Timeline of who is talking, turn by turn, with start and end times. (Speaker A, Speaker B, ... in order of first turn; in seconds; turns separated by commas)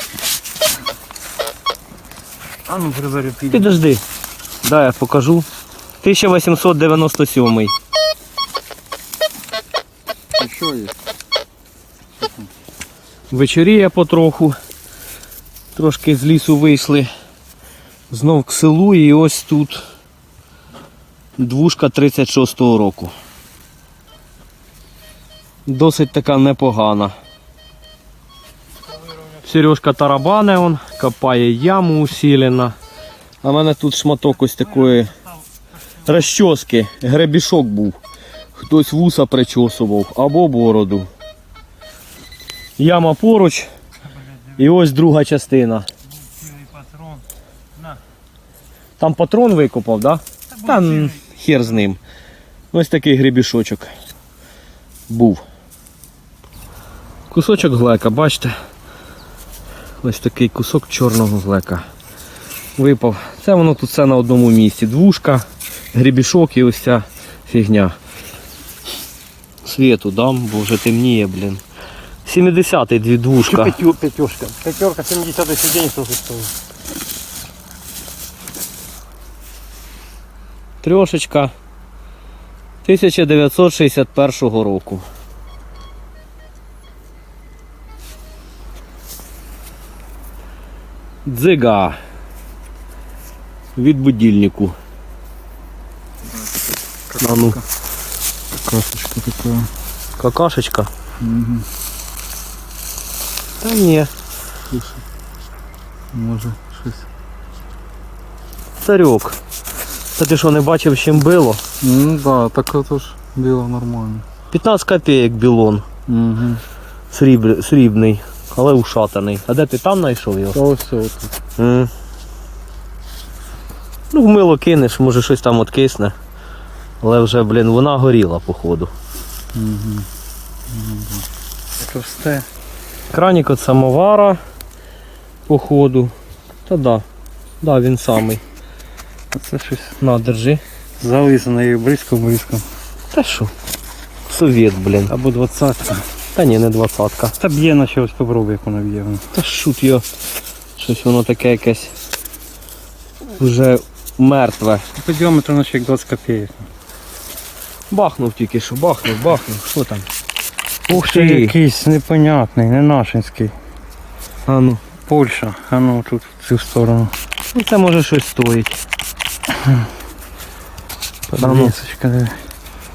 Speaker A: 2.7-3.8, Speaker B: 3.5-4.0, Speaker B: 4.6-5.5, Speaker B: 6.0-7.7, Speaker C: 10.4-10.9, Speaker B: 13.3-14.6, Speaker B: 15.8-17.1, Speaker B: 18.1-19.8, Speaker B: 21.4-23.1, Speaker B: 25.7-27.1, Speaker B: 29.4-32.8, Speaker B: 33.4-35.1, Speaker B: 36.0-38.0, Speaker B: 38.6-41.1, Speaker B: 42.8-43.7, Speaker B: 44.6-45.9, Speaker A: 46.3-47.2, Speaker B: 49.0-52.0, Speaker A: 50.5-51.2, Speaker B: 52.7-53.9, Speaker B: 55.1-55.4, Speaker B: 57.3-58.5, Speaker B: 60.0-61.9, Speaker B: 62.8-68.0, Speaker B: 69.6-71.6, Speaker B: 72.3-73.8, Speaker A: 73.4-76.5, Speaker B: 80.8-81.5, Speaker B: 82.8-85.0, Speaker B: 91.3-92.0, Speaker B: 93.8-94.8, Speaker C: 96.4-97.6, Speaker B: 97.2-97.6, Speaker C: 98.5-99.7, Speaker B: 100.2-100.9, Speaker C: 101.2-101.7, Speaker B: 103.6-104.1, Speaker C: 104.7-105.0, Speaker C: 106.1-107.1, Speaker B: 108.8-109.4, Speaker B: 110.2-111.6, Speaker C: 111.8-114.2, Speaker B: 114.5-115.8, Speaker C: 116.1-116.6, Speaker B: 117.1-120.6, Speaker C: 120.5-121.3, Speaker B: 121.6-121.9, Speaker B: 124.1-126.1, Speaker B: 127.0-128.9, Speaker C: 129.6-130.1, Speaker C: 130.8-131.2, Speaker A: 131.8-132.5, Speaker B: 133.1-134.4, Speaker B: 135.5-136.1, Speaker B: 136.7-137.0, Speaker B: 137.6-138.4, Speaker A: 139.3-140.0, Speaker B: 140.0-140.6, Speaker A: 141.0-142.6, Speaker B: 143.1-143.5, Speaker B: 144.3-145.1, Speaker A: 145.1-146.1, Speaker B: 146.3-147.3, Speaker A: 147.4-149.2, Speaker B: 149.3-150.0, Speaker B: 150.8-151.9, Speaker B: 153.4-154.8, Speaker A: 155.0-156.7, Speaker B: 157.9-160.1, Speaker B: 160.9-161.6, Speaker A: 160.9-163.5, Speaker B: 164.5-164.8, Speaker A: 165.1-167.1, Speaker B: 167.5-168.8, Speaker A: 171.3-172.4, Speaker B: 171.4-171.8